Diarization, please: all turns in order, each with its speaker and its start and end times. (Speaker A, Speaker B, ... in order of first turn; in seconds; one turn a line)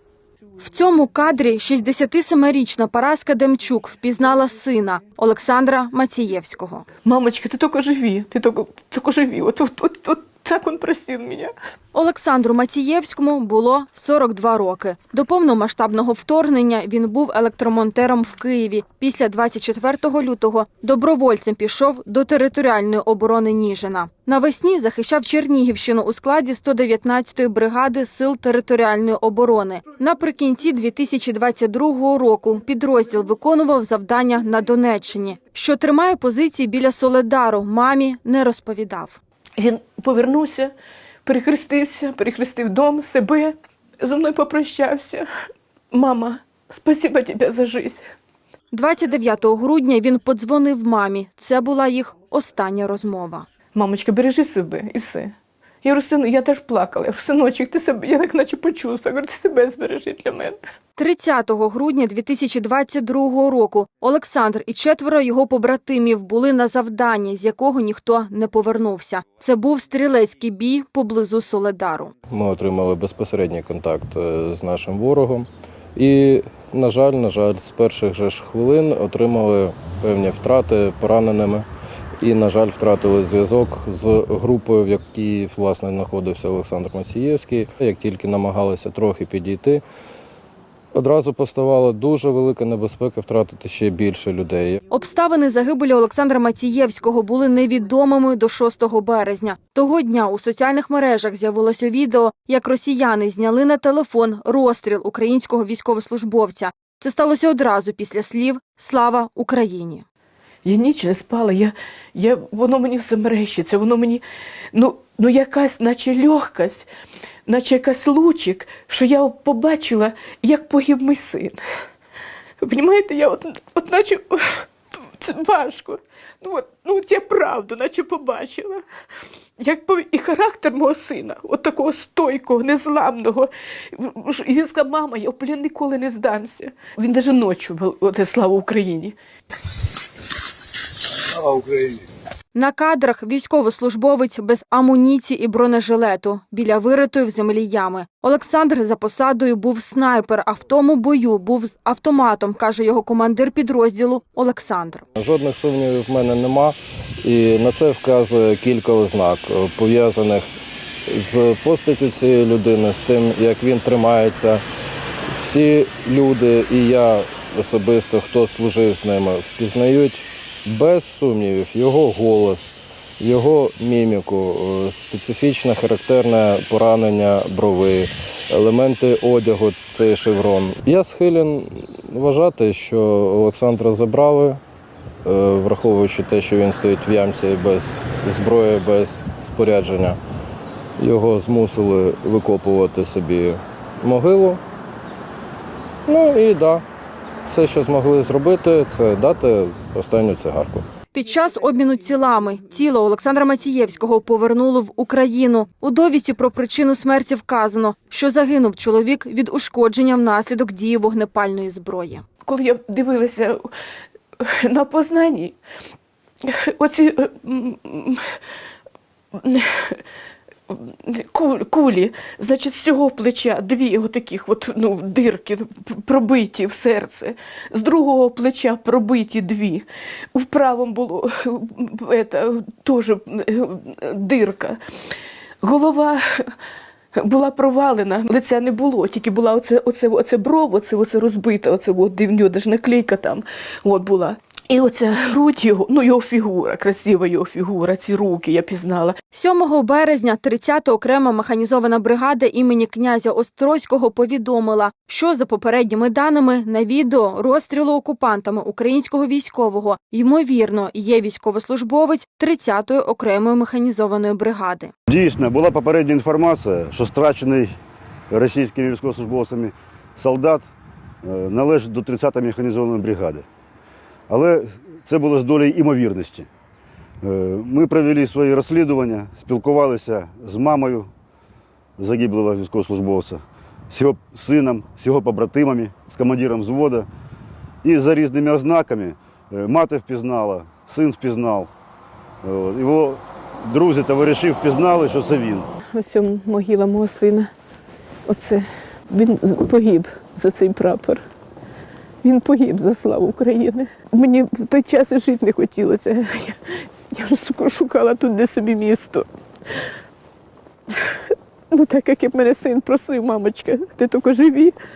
Speaker A: 0.6-6.9
Speaker B: 7.0-11.5
Speaker A: 11.9-39.2
Speaker B: 39.6-40.7
Speaker B: 41.2-45.3
Speaker B: 45.9-48.1
Speaker A: 48.7-53.5
Speaker B: 53.7-60.6
Speaker A: 61.0-72.1
Speaker C: 72.3-81.7
Speaker C: 82.2-89.8
Speaker C: 90.9-94.8
Speaker A: 94.9-110.0
Speaker B: 110.6-116.9
Speaker B: 117.5-121.6
Speaker B: 122.6-128.8
Speaker B: 129.6-139.1
Speaker A: 142.5-155.0
Speaker C: 155.2-160.5
Speaker C: 161.1-164.6
Speaker C: 165.3-184.6
Speaker C: 185.2-190.2
Speaker C: 191.0-194.6
Speaker C: 196.1-196.8
Speaker C: 197.5-200.9
Speaker A: 201.1-212.2
Speaker B: 212.4-213.7
Speaker B: 214.4-215.6
Speaker B: 216.4-218.2
Speaker B: 219.3-220.0
Speaker B: 220.7-234.8
Speaker B: 235.6-236.5
Speaker B: 237.2-249.2
Speaker A: 249.3-264.9
Speaker D: 265.1-267.7
Speaker D: 268.3-270.6
Speaker D: 271.2-273.4
Speaker D: 274.3-276.5
Speaker D: 277.2-281.1
Speaker D: 282.0-287.1
Speaker D: 287.8-291.7
Speaker D: 292.4-295.7
Speaker B: 295.9-297.5
Speaker B: 298.3-301.2
Speaker B: 302.2-309.2
Speaker B: 311.7-314.7